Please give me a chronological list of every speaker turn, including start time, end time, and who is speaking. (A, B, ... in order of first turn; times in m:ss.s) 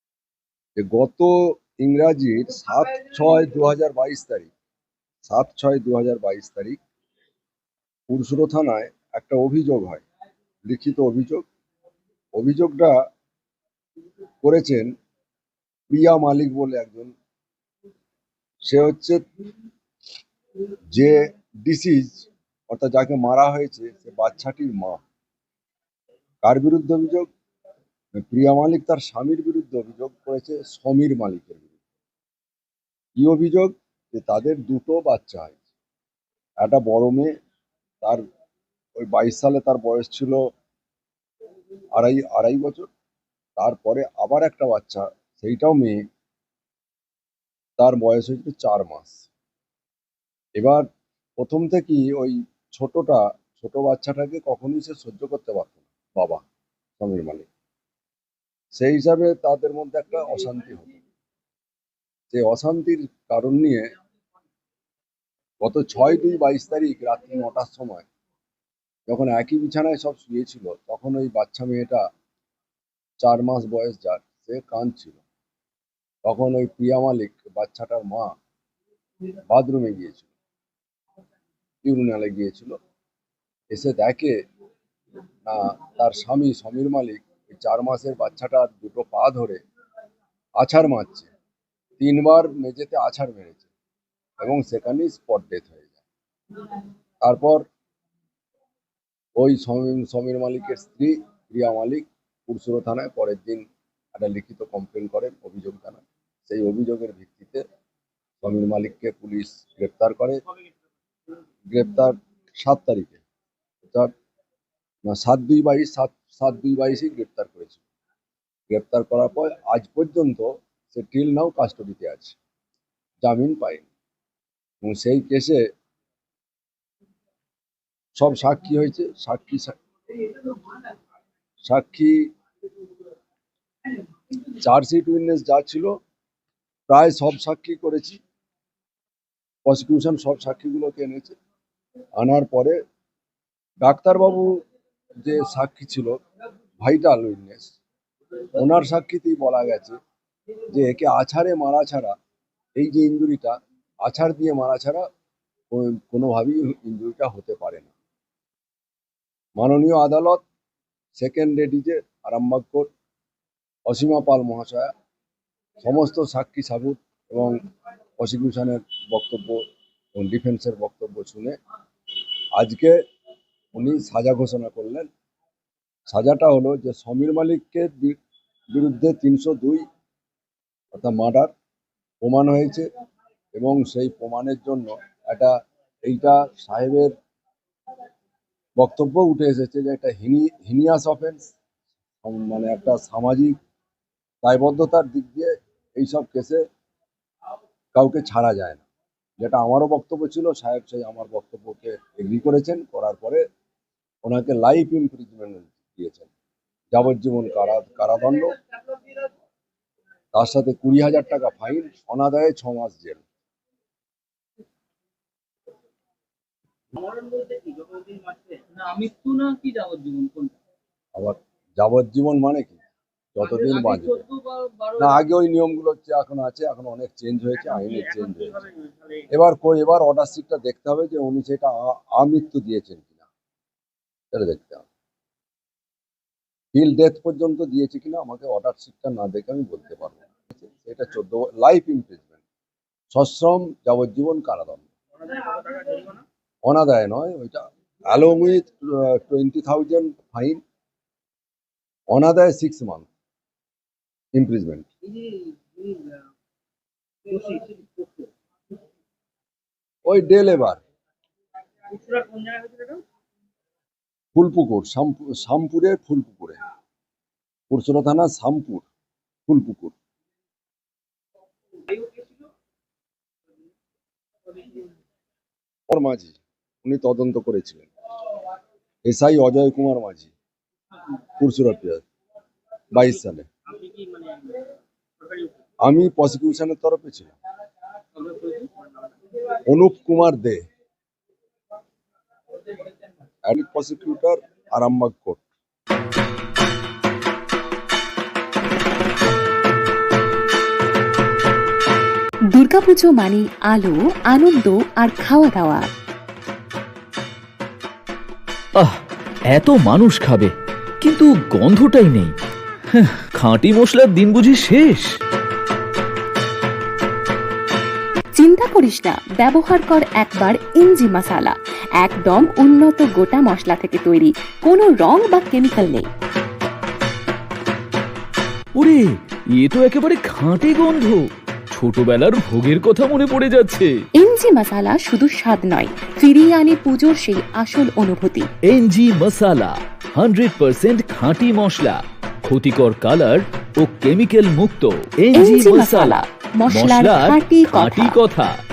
0:00.8-0:04.5 A
0:05.2-0:06.8 A
0:08.1-0:10.0 A
0:10.6-0:11.4 A
0:12.4-0:12.9 A
0:14.4-0:14.9 A
0:15.9-0:17.1 A
0:18.6-0:19.2 A
0:20.9-0:25.0 A
0:26.4-0:27.3 A
0:28.1-0:31.7 A
0:33.2-0:35.6 A
0:36.6-0:37.3 A
0:39.0-0:40.4 A
0:42.0-0:42.9 A
0:43.6-0:46.0 A
0:47.8-0:49.2 A
0:50.6-0:50.8 A
0:51.4-0:56.4 A
0:57.0-0:57.5 A
0:58.7-1:00.9 A
1:02.3-1:03.9 A
1:05.6-1:08.1 A
1:09.1-1:12.0 A
1:13.2-1:15.2 A
1:16.2-1:18.3 A
1:19.5-1:20.3 A
1:21.8-1:22.7 A
1:23.7-1:24.3 A
1:25.4-1:29.6 A
1:30.6-1:31.3 A
1:32.0-1:33.7 A
1:34.4-1:35.8 A
1:37.2-1:37.6 A
1:39.4-1:47.6 A
1:48.4-1:50.4 A
1:51.7-1:53.2 A
1:55.0-1:57.8 A
1:58.7-2:02.4 A
2:03.2-2:03.9 A
2:04.8-2:05.6 A
2:08.2-2:09.8 A
2:11.6-2:12.2 A
2:14.6-2:15.9 A
2:16.9-2:18.2 A
2:19.6-2:21.4 A
2:22.2-2:22.8 A
2:23.8-2:24.5 A
2:25.2-2:26.1 A
2:26.8-2:27.7 A
2:28.6-2:29.9 A
2:30.7-2:32.1 A
2:32.8-2:35.0 A
2:35.7-2:37.9 A
2:39.6-2:40.4 A
2:41.2-2:42.9 A
2:43.9-2:44.9 A
2:45.8-2:47.6 A
2:48.2-2:49.6 A
2:50.1-2:51.5 A
2:52.6-2:53.0 A
2:53.7-2:55.1 A
2:56.1-2:58.2 A
2:58.7-2:59.8 A
3:00.9-3:01.5 A
3:02.2-3:02.9 A
3:03.5-3:05.5 A
3:06.0-3:07.1 A
3:08.8-3:11.4 A
3:12.2-3:13.6 A
3:14.4-3:16.6 A
3:17.9-3:18.8 A
3:19.4-3:23.4 A
3:24.2-3:26.3 A
3:26.9-3:28.6 A
3:30.3-3:33.2 A
3:36.9-3:40.5 B
3:41.1-3:42.8 A
3:43.3-3:44.2 A
3:43.5-3:45.0 B
3:45.0-3:48.6 A
3:47.7-3:49.2 B
3:49.3-3:53.2 A
3:54.3-3:54.8 A
3:56.7-4:02.4 A
4:03.1-4:04.9 A
4:05.4-4:06.2 B
4:06.6-4:10.6 A
4:12.1-4:13.1 A
4:14.3-4:14.9 A
4:15.1-4:16.2 B
4:17.2-4:18.3 B
4:20.0-4:20.8 A
4:21.9-4:23.0 B
4:24.3-4:26.6 A
4:27.7-4:28.8 A
4:29.5-4:29.9 A
4:35.9-4:37.9 A
4:39.0-4:40.3 A
4:41.4-4:42.0 A
4:42.9-4:43.5 A
4:43.7-4:44.6 B
4:45.2-4:45.5 B
4:45.8-4:47.3 A
4:48.2-4:48.9 B
4:49.6-4:50.6 A
4:53.4-4:55.4 A
5:02.5-5:05.9 C
5:09.5-5:12.3 D
5:12.9-5:15.1 D
5:18.3-5:26.1 C
5:28.7-5:33.9 D
5:34.2-5:38.5 C
5:38.7-5:46.2 D
5:45.4-5:48.2 C
5:46.7-5:48.5 D